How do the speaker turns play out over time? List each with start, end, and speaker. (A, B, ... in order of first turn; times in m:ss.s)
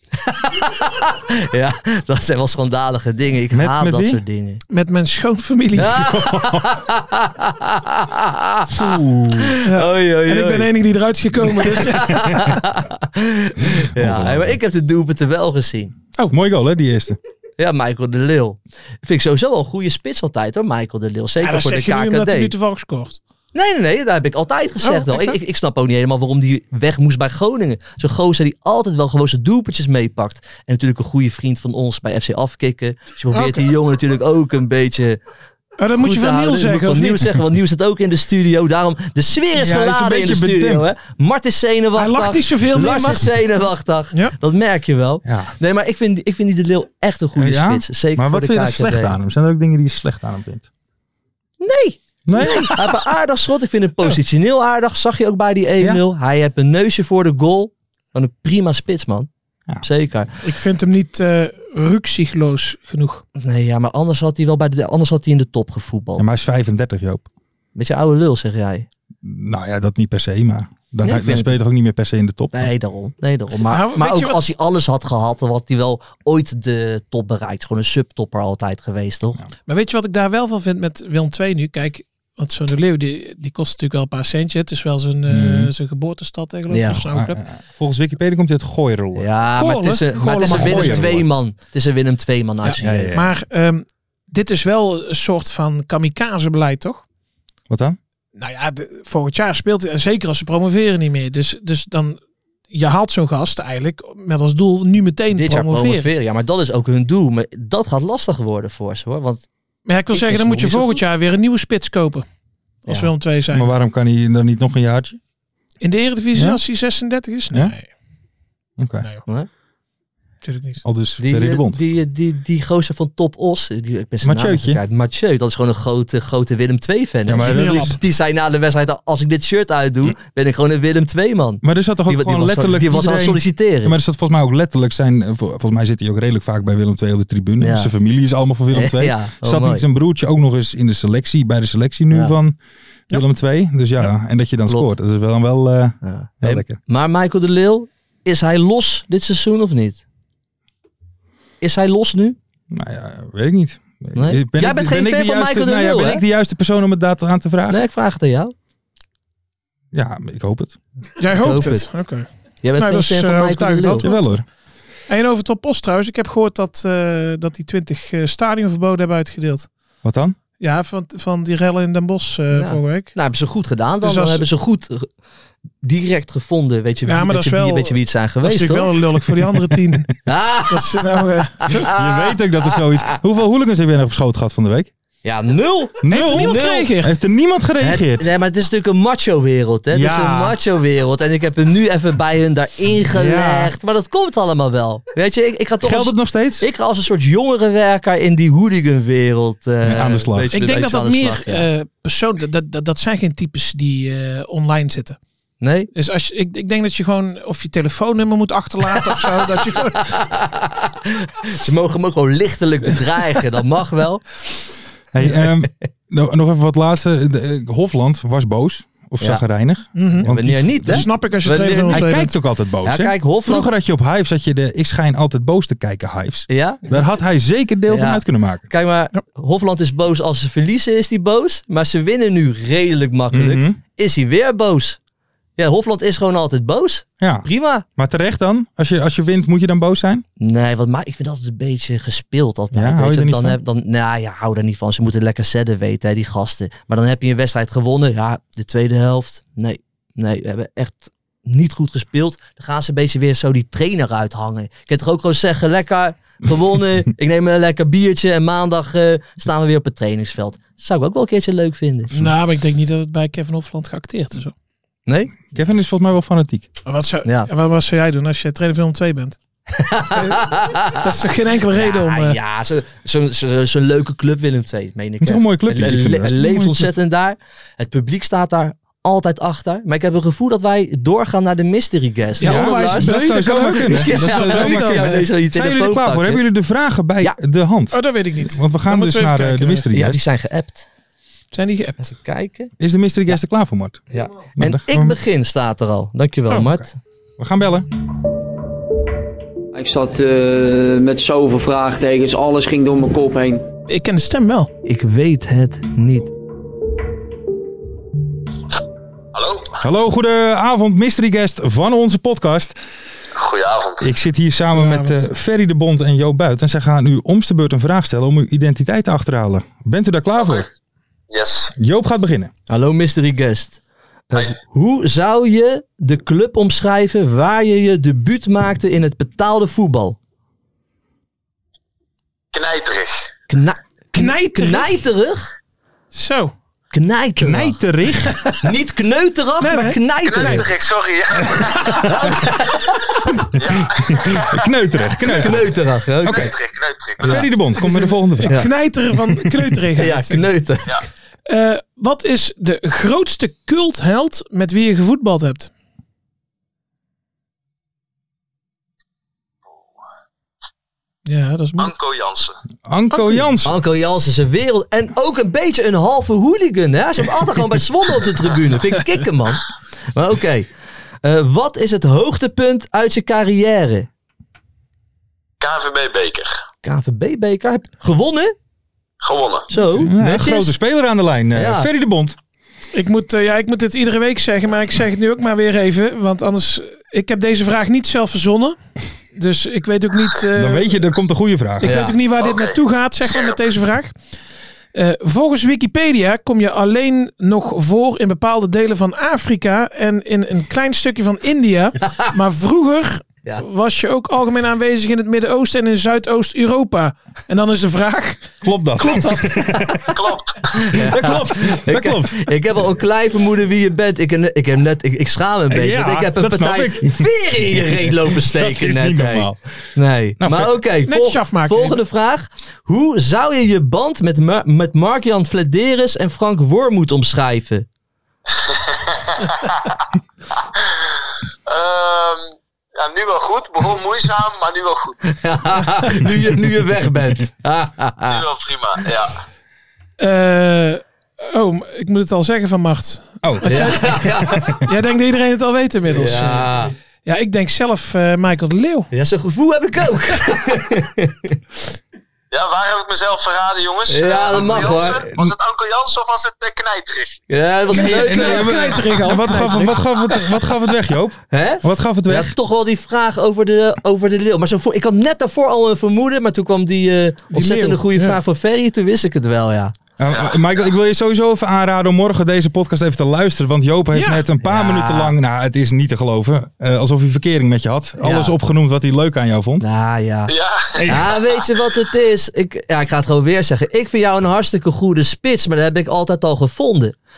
0:00.2-0:04.6 A
0:03.5-0:04.2 B
0:04.7-0:06.1 C
0:05.8-0:10.7 A
0:05.8-0:06.8 B
0:08.8-0:09.5 B
0:09.6-0:12.6 C
0:11.6-0:15.9 A
0:13.9-0:14.6 B
0:16.3-0:17.2 B
0:17.6-0:22.5 A
0:21.4-0:23.2 C
0:23.5-0:35.2 A
0:24.8-0:25.4 C
0:33.3-0:33.7 C
0:35.8-0:37.4 C
0:35.9-0:49.2 A
0:39.6-0:40.9 B
0:42.0-0:43.3 C
0:45.2-0:45.5 B
0:47.4-0:50.7 B
0:51.6-0:59.3 A
0:52.2-0:52.8 B
0:59.8-1:00.3 A
1:00.4-1:03.2 C
1:03.4-1:06.2 A
1:06.2-1:07.3 B
1:07.7-1:08.9 A
1:09.2-1:12.7 B
1:11.0-1:11.6 A
1:12.5-1:19.4 A
1:13.7-1:14.4 C
1:19.7-1:27.4 C
1:25.3-1:25.7 B
1:26.7-1:27.0 A
1:27.1-1:29.3 B
1:29.1-1:33.2 A
1:29.6-1:31.1 C
1:30.4-1:31.3 B
1:32.6-1:37.0 C
1:32.8-1:33.3 B
1:37.7-1:38.0 B
1:38.4-1:42.2 C
1:42.7-1:46.1 C
1:45.3-1:49.5 A
1:49.8-1:52.2 C
1:50.1-1:51.0 A
1:52.8-1:53.7 C
1:53.5-1:55.2 B
1:55.8-1:57.9 C
1:56.3-1:56.6 B
1:58.8-1:59.0 B
2:00.4-2:00.8 C
2:00.8-2:01.8 B
2:01.2-2:13.9 A
2:04.2-2:04.8 B
2:07.2-2:08.0 B
2:07.4-2:08.0 C
2:11.6-2:22.6 B
2:17.6-2:17.9 A
2:18.7-2:19.8 A
2:23.1-2:26.8 B
2:24.7-2:24.9 A
2:26.0-2:30.0 A
2:31.6-2:32.4 A
2:32.7-2:37.8 B
2:34.1-2:36.2 A
2:37.7-2:38.5 A
2:39.9-2:40.8 B
2:41.2-2:44.3 C
2:41.3-2:41.9 A
2:42.6-2:44.1 A
2:44.0-2:44.4 B
2:45.1-2:49.7 C
2:50.0-2:50.4 B
2:50.6-2:53.2 C
2:52.5-2:55.1 A
2:54.0-2:54.4 C
2:55.8-2:59.0 A
2:57.0-3:01.8 C
3:00.2-3:01.1 A
3:01.6-3:02.8 A
3:01.8-3:04.9 B
3:05.2-3:06.9 A
3:06.0-3:08.3 B
3:06.1-3:07.1 C
3:07.8-3:21.7 A
3:09.9-3:10.6 B
3:13.1-3:13.7 B
3:15.8-3:16.6 B
3:19.8-3:20.6 B
3:20.5-3:25.2 C
3:25.6-3:25.9 A
3:25.9-3:30.2 C
3:29.1-3:34.6 A
3:35.1-3:41.1 B
3:39.9-3:40.3 C
3:40.2-3:42.2 A
3:40.8-3:42.3 C
3:41.9-3:48.7 B
3:42.8-3:43.7 A
3:46.5-3:47.0 A
3:47.9-3:55.0 A
3:53.3-3:53.8 B
3:55.6-3:57.8 A
3:57.2-4:00.2 B
4:00.4-4:22.2 A
4:02.7-4:03.6 B
4:22.1-4:24.5 C
4:25.1-4:25.3 A
4:25.4-4:26.7 B
4:26.8-4:29.4 C
4:27.2-4:27.5 A
4:29.7-4:46.4 A
4:30.1-4:32.4 C
4:35.2-4:36.9 B
4:42.4-4:45.3 C
4:42.4-4:50.2 B
4:47.9-4:49.9 C
4:49.9-4:50.9 A
4:51.5-4:52.0 C
4:52.0-4:52.7 A
4:52.8-4:54.0 B
4:54.1-4:57.0 A
4:54.6-4:55.2 B
4:56.6-4:56.8 B
4:57.4-4:57.9 B
4:59.7-5:03.6 D
5:03.9-5:04.7 C
5:04.8-5:06.3 A
5:09.3-5:09.8 E
5:09.8-5:12.8 B
5:13.3-5:14.1 E
5:14.0-5:20.6 B
5:14.7-5:15.2 C
5:20.4-5:20.6 E
5:21.3-5:21.7 E
5:21.8-5:22.5 B
5:22.7-5:30.2 A
5:32.5-5:33.3 E
5:33.5-5:35.5 A
5:34.1-5:35.0 C
5:36.1-5:36.5 C
5:36.9-5:37.8 A
5:37.4-5:38.5 B
5:38.6-5:40.7 A
5:39.6-5:40.7 C
5:40.2-5:42.3 E
5:41.8-5:43.4 A
5:43.5-5:44.7 E
5:43.5-5:46.5 B
5:45.2-5:46.5 A
5:46.2-5:47.4 E
5:47.2-5:48.6 B
5:47.2-5:47.5 A
5:47.8-5:50.5 C
5:50.0-5:51.0 A
5:51.5-5:55.7 C
6:01.2-6:01.9 C
6:01.8-6:02.6 E
6:02.8-6:03.7 B
6:03.1-6:03.5 C
6:03.6-6:10.7 A
6:11.2-6:14.1 A
6:15.6-6:16.5 E
6:16.8-6:18.5 A
6:19.2-6:19.7 E
6:19.7-6:20.7 A
6:20.0-6:22.4 B
6:21.5-6:21.9 A
6:22.9-6:28.8 C
6:29.3-6:31.0 C
6:30.5-6:32.0 B
6:31.8-6:34.2 C
6:31.8-6:32.1 A
6:32.4-6:33.6 E
6:34.9-6:49.6 C
6:42.0-6:42.3 A
6:48.6-6:50.0 B
6:50.1-6:50.9 E
6:50.7-7:07.9 A
6:50.9-6:52.6 B
6:55.7-6:59.6 B
7:00.4-7:00.8 B
7:01.0-7:02.0 C
7:08.5-7:11.2 E
7:11.7-7:15.3 E
7:15.3-7:18.4 A
7:18.3-7:19.4 E
7:20.2-7:26.7 C
7:23.4-7:24.8 B
7:23.6-7:24.8 A
7:26.1-7:26.9 A
7:27.2-7:29.1 C
7:29.1-7:31.6 A
7:32.5-7:37.4 E
7:34.1-7:35.4 A
7:37.5-7:39.0 A
7:37.9-7:42.5 B
7:37.9-7:40.1 C
7:41.5-7:49.9 A
7:47.5-7:48.4 C
7:50.2-7:59.8 B
7:50.3-7:50.8 E
7:54.1-7:54.4 C
7:54.6-7:55.3 A
7:58.2-7:58.5 A
7:59.8-8:00.5 A
8:00.5-8:01.7 E
8:01.1-8:07.2 A